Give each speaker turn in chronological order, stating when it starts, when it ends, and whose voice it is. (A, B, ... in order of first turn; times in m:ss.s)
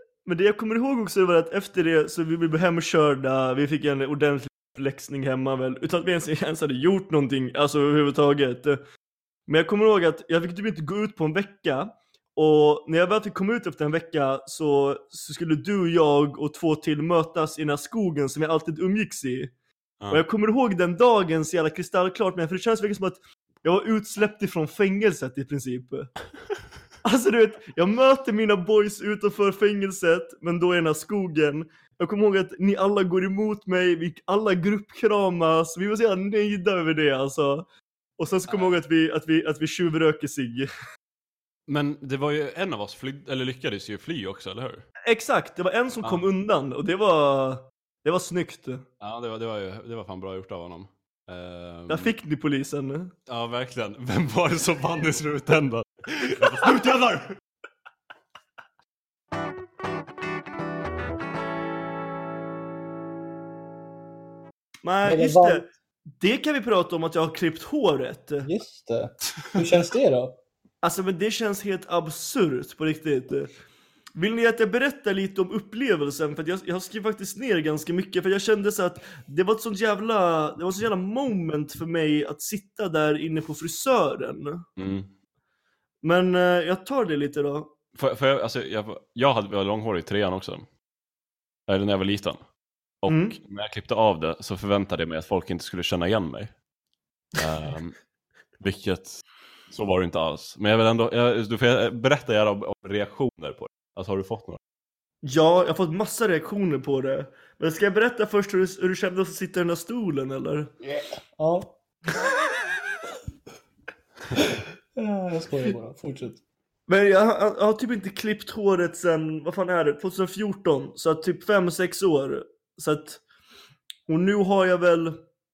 0:00.3-0:08.8 A
0:09.5-0:19.5 A
0:20.1-0:26.2 A
0:27.0-0:37.6 A
0:38.2-0:40.7 A
0:38.5-0:38.8 B
0:41.7-0:44.9 B
0:45.1-0:48.8 A
0:46.0-0:46.3 B
0:49.0-0:52.1 B
0:51.9-0:53.1 A
0:53.3-0:57.4 B
1:04.8-1:08.5 A
1:05.0-1:05.7 C
1:08.4-1:10.4 C
1:10.8-1:13.5 A
1:14.2-1:24.6 A
1:24.8-1:25.1 B
1:26.0-1:27.7 A
1:28.0-1:30.7 B
1:31.7-1:32.5 B
1:33.0-1:36.6 B
1:33.1-1:33.4 A
1:37.4-1:38.0 B
1:38.6-1:44.6 B
1:45.2-1:50.7 A
1:50.8-1:51.7 C
1:54.4-1:56.4 C
1:56.9-2:03.2 A
2:04.1-2:05.2 A